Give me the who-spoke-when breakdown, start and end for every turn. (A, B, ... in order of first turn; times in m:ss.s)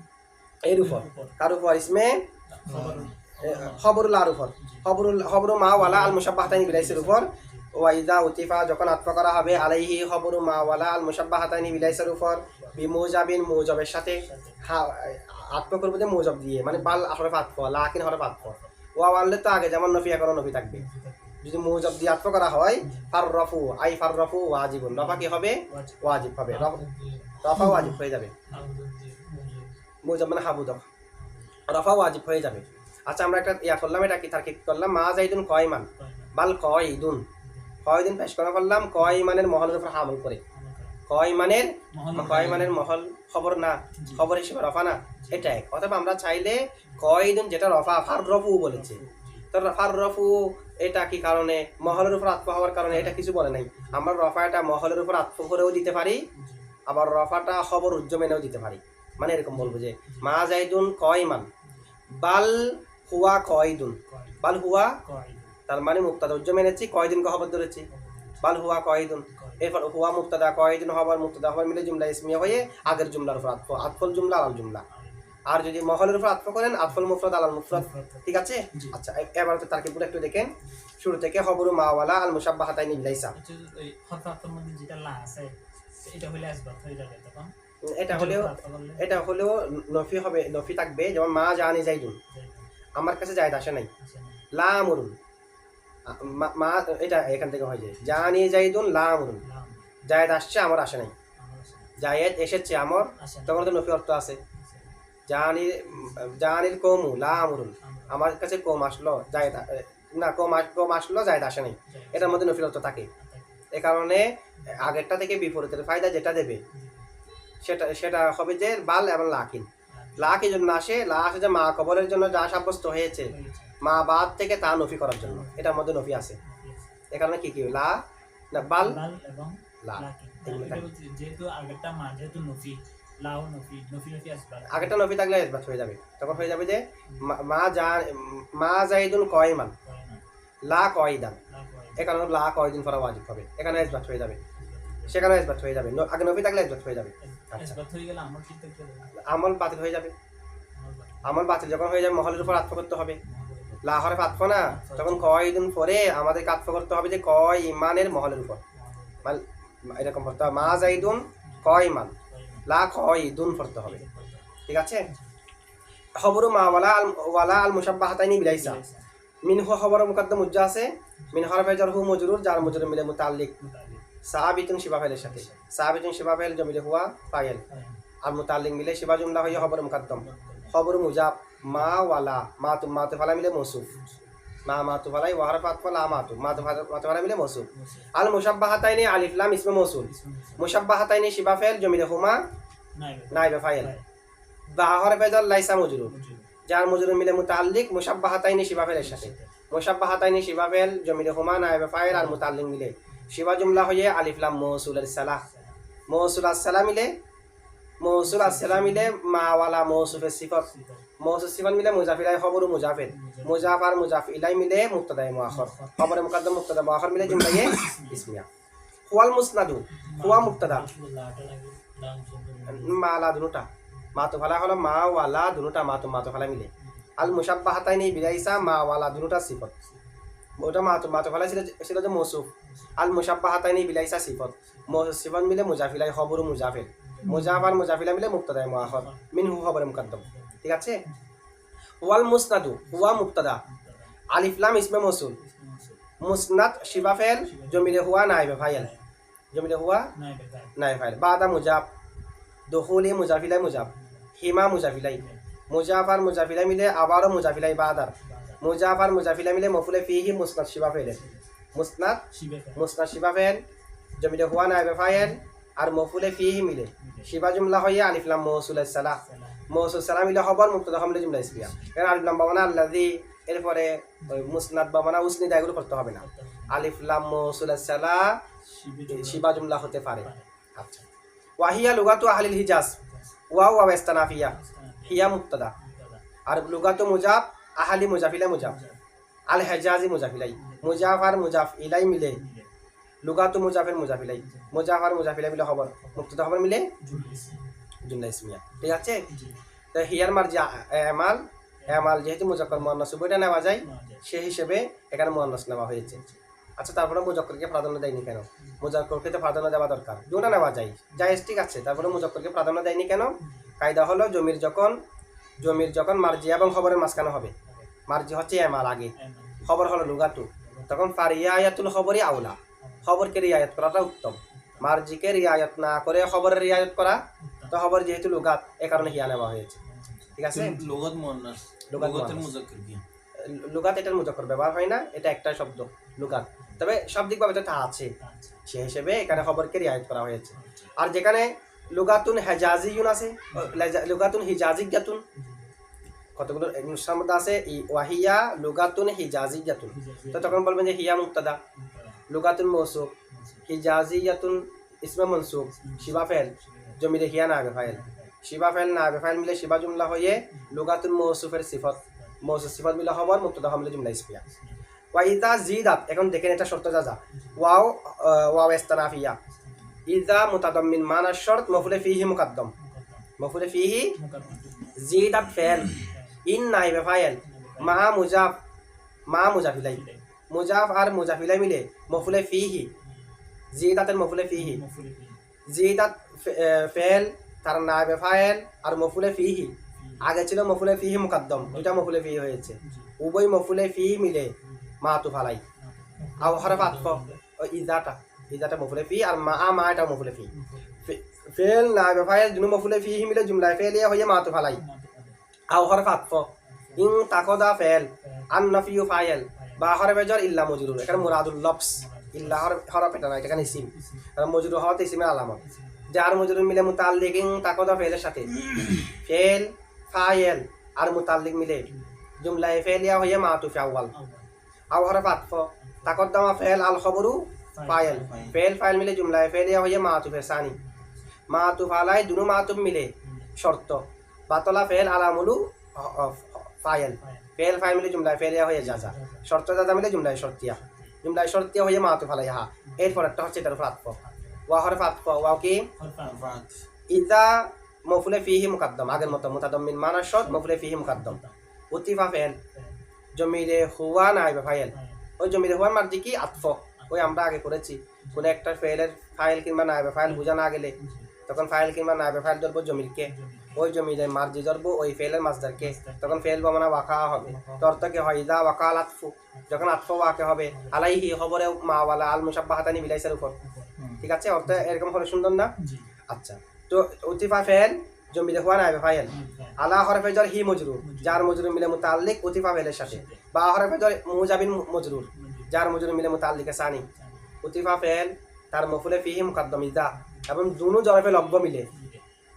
0:00.7-0:02.2 A
0:00.8-0:01.4 B
0:02.5-0:03.9 B
0:02.7-0:03.1 C
0:03.4-0:20.8 A
0:04.6-0:07.7 B
0:09.2-0:09.9 B
0:10.5-0:10.9 B
0:11.4-0:13.0 B
0:14.2-0:14.7 B
0:16.7-0:17.0 B
0:18.4-0:18.7 B
0:20.6-0:21.4 B
0:21.4-0:26.8 A
0:22.8-0:23.1 B
0:24.9-0:27.9 B
0:27.4-0:28.3 A
0:28.5-0:29.7 B
0:30.0-0:30.8 A
0:31.2-0:31.6 B
0:31.7-0:37.2 A
0:32.4-0:32.8 B
0:36.0-0:36.4 B
0:37.4-0:37.8 B
0:37.8-0:40.4 A
0:40.5-0:41.0 B
0:41.1-0:49.0 A
0:41.9-0:42.8 B
0:43.9-0:44.3 B
0:45.0-0:45.6 B
0:46.9-0:47.2 B
0:48.7-0:49.5 B
0:49.5-0:56.2 A
0:51.8-0:52.2 B
0:52.9-0:54.0 B
0:56.3-0:56.7 B
0:56.9-1:01.5 A
0:59.5-1:00.3 B
1:02.2-1:05.0 A
1:04.1-1:05.6 B
1:05.7-1:07.9 A
1:07.9-1:08.4 B
1:08.4-1:14.8 A
1:09.3-1:09.7 B
1:12.4-1:13.1 B
1:13.7-1:14.3 B
1:14.9-1:15.4 B
1:15.5-1:23.4 A
1:17.7-1:19.0 B
1:23.3-1:27.5 B
1:27.9-1:32.2 A
1:28.1-1:29.3 B
1:32.3-1:32.7 B
1:33.0-1:33.9 A
1:34.0-1:34.4 B
1:34.5-1:35.2 A
1:36.1-1:39.4 A
1:38.0-1:38.3 B
1:39.4-1:39.9 B
1:40.0-1:41.1 A
1:41.4-1:42.0 B
1:42.0-1:44.4 A
1:43.1-1:43.8 B
1:44.5-1:45.0 B
1:45.3-1:53.1 A
1:45.9-1:46.4 B
1:47.3-1:48.3 B
1:49.2-1:49.7 B
1:51.9-1:52.6 B
1:53.2-1:53.7 B
1:53.7-1:56.6 A
1:56.7-1:57.1 B
1:57.6-2:06.4 A
1:59.9-2:00.4 B
2:03.2-2:03.8 B
2:05.1-2:05.8 B
2:06.4-2:06.9 B
2:07.1-2:09.0 A
2:08.6-2:15.0 B
2:09.8-2:10.9 A
2:14.7-2:19.7 A
2:17.1-2:17.3 B
2:19.8-2:20.2 B
2:20.6-2:21.4 A
2:21.5-2:22.1 B
2:22.0-2:24.4 A
2:23.8-2:25.3 B
2:25.1-2:27.8 A
2:27.2-2:29.1 B
2:29.2-2:30.1 A
2:30.7-2:31.4 B
2:31.2-2:33.2 A
2:33.2-2:35.3 B
2:33.8-2:38.6 A
2:38.7-2:39.3 B
2:39.2-2:42.1 A
2:40.4-2:42.7 B
2:42.7-2:44.0 A
2:43.8-2:44.5 B
2:44.6-2:45.1 A
2:46.2-2:48.8 A
2:48.5-2:49.1 B
2:49.4-2:53.5 A
2:51.2-2:51.6 B
2:52.6-2:53.0 B
2:53.6-2:54.0 B
2:54.3-2:57.6 A
2:55.1-2:55.7 B
2:57.7-2:58.0 B
2:58.2-3:03.9 A
2:59.4-3:00.8 B
3:01.6-3:02.0 B
3:03.9-3:04.3 B
3:04.6-3:12.4 A
3:06.1-3:06.8 B
3:07.7-3:08.1 B
3:10.0-3:10.7 B
3:12.9-3:14.0 B
3:13.3-3:13.9 A
3:14.7-3:16.1 A
3:16.0-3:16.5 B
3:16.7-3:25.4 A
3:19.0-3:19.5 B
3:22.1-3:23.3 B
3:25.4-3:25.8 B
3:26.1-3:27.1 A
3:28.0-3:38.4 A
3:28.2-3:29.2 B
3:30.1-3:31.0 B
3:33.0-3:33.8 B
3:35.5-3:36.1 B
3:37.2-3:38.3 B
3:39.1-3:40.9 A
3:39.9-3:43.0 B
3:42.7-3:49.7 A
3:46.8-3:47.4 B
3:48.1-3:48.8 B
3:49.8-3:50.1 B
3:50.6-4:01.0 A
3:52.6-3:53.1 B
3:54.7-3:55.0 B
3:57.0-3:57.8 B
3:58.8-4:01.3 B
4:02.0-4:03.6 A
4:02.8-4:04.1 B
4:04.3-4:05.4 A
4:05.4-4:06.0 B
4:06.2-4:08.9 A
4:07.4-4:09.1 B
4:09.5-4:10.1 A
4:10.1-4:10.8 B
4:10.8-4:11.8 A
4:12.7-4:21.2 A
4:13.6-4:14.3 B
4:15.1-4:15.4 B
4:18.2-4:18.6 B
4:21.0-4:21.4 B
4:21.7-4:23.6 A
4:22.3-4:22.8 B
4:24.2-4:38.4 A
4:25.1-4:25.4 B
4:27.0-4:27.4 B
4:29.1-4:29.8 B
4:31.4-4:32.0 B
4:34.2-4:34.6 B
4:36.2-4:36.9 B
4:38.6-4:40.5 B
4:39.1-4:41.0 A
4:41.6-4:43.0 A
4:43.0-4:43.4 B
4:43.5-4:45.7 A
4:44.3-4:46.2 B
4:46.5-4:48.8 A
4:48.6-4:49.0 B
4:49.5-4:52.4 A
4:50.6-4:51.2 B
4:52.2-4:52.7 B
4:53.2-4:59.2 A
4:54.4-4:54.9 B
4:56.0-4:56.3 B
4:57.0-4:57.8 B
4:58.7-4:59.6 B
4:59.9-5:06.2 A
5:01.8-5:02.9 B
5:03.8-5:04.2 B
5:06.0-5:06.4 B
5:06.8-5:15.0 A
5:10.4-5:11.4 B
5:11.9-5:12.3 B
5:13.4-5:13.7 B
5:15.6-5:15.9 B
5:15.6-5:17.5 A
5:17.6-5:17.9 B
5:18.1-5:29.8 A
5:19.2-5:19.8 B
5:20.5-5:21.1 B
5:22.8-5:23.1 B
5:24.5-5:25.0 B
5:27.4-5:27.8 B
5:28.9-5:29.2 B
5:29.8-5:30.4 B
5:30.4-5:30.8 A
5:30.5-5:33.0 C
5:31.9-5:32.5 A
5:33.4-5:38.1 A
5:36.1-5:36.8 B
5:38.2-5:38.6 B
5:38.6-5:45.2 A
5:40.5-5:40.9 B
5:43.5-5:44.0 B
5:45.3-5:45.7 B
5:46.4-5:51.6 A
5:49.9-5:50.6 B
5:51.7-5:52.2 B
5:52.3-5:53.1 A
5:53.3-5:53.6 B
5:53.7-6:04.4 A
5:55.8-5:57.0 B
5:57.8-5:58.3 B
6:00.3-6:00.8 B
6:02.0-6:02.4 B
6:04.4-6:04.8 B
6:05.1-6:09.4 A
6:07.3-6:07.6 B
6:09.4-6:10.0 B
6:10.1-6:12.7 A
6:11.7-6:12.1 B
6:12.8-6:13.3 B
6:13.4-6:14.2 A
6:14.2-6:15.1 B
6:15.0-6:18.6 A
6:15.9-6:16.4 B
6:17.4-6:18.0 B
6:19.3-6:22.9 A
6:19.7-6:20.2 B
6:22.1-6:22.4 B
6:23.0-6:23.3 B
6:23.7-6:24.8 A
6:24.5-6:25.4 B
6:25.7-6:35.6 A
6:29.8-6:30.3 B
6:31.6-6:32.1 B
6:32.7-6:33.1 B
6:34.6-6:35.0 B
6:35.8-6:37.4 B
6:36.4-6:40.5 A
6:40.5-6:41.1 B
6:41.0-6:44.8 A
6:44.7-6:45.4 B
6:45.7-7:01.9 A
6:46.6-6:47.4 B
6:48.2-6:48.5 B
6:49.5-6:49.9 B
6:51.1-6:52.8 B
6:53.5-6:54.3 B
6:55.6-6:56.1 B
7:01.9-7:02.2 B
7:02.4-7:04.1 A
7:04.1-7:04.5 B
7:04.9-7:10.8 A
7:05.8-7:06.3 B
7:07.7-7:08.6 B
7:10.7-7:11.3 B
7:11.5-7:25.9 A
7:13.2-7:13.6 B
7:17.2-7:17.6 B
7:18.8-7:19.5 B
7:20.6-7:21.2 B
7:22.8-7:23.3 B
7:24.2-7:24.7 B
7:25.9-7:26.6 B
7:26.2-7:26.8 C
7:27.1-7:31.4 A
7:29.1-7:29.6 B
7:30.3-7:31.6 B
7:31.9-7:32.6 A
7:32.7-7:33.0 B
7:33.4-7:40.9 A
7:34.9-7:35.3 B
7:36.6-7:37.4 B
7:38.2-7:38.6 B
7:40.2-7:41.4 B
7:41.5-7:53.6 A
7:43.2-7:43.9 B
7:45.8-7:46.6 B
7:47.4-7:48.3 B
7:49.5-7:50.0 B
7:50.7-7:51.0 B
7:53.6-7:55.0 B
7:54.2-7:55.7 A
7:55.8-7:56.1 B
7:56.3-8:07.0 A
7:59.3-7:59.8 B
8:01.0-8:01.9 B
8:03.0-8:03.4 B
8:05.3-8:05.8 B
8:07.1-8:07.6 B
8:07.6-8:11.9 A
8:10.1-8:10.5 B
8:11.9-8:12.2 B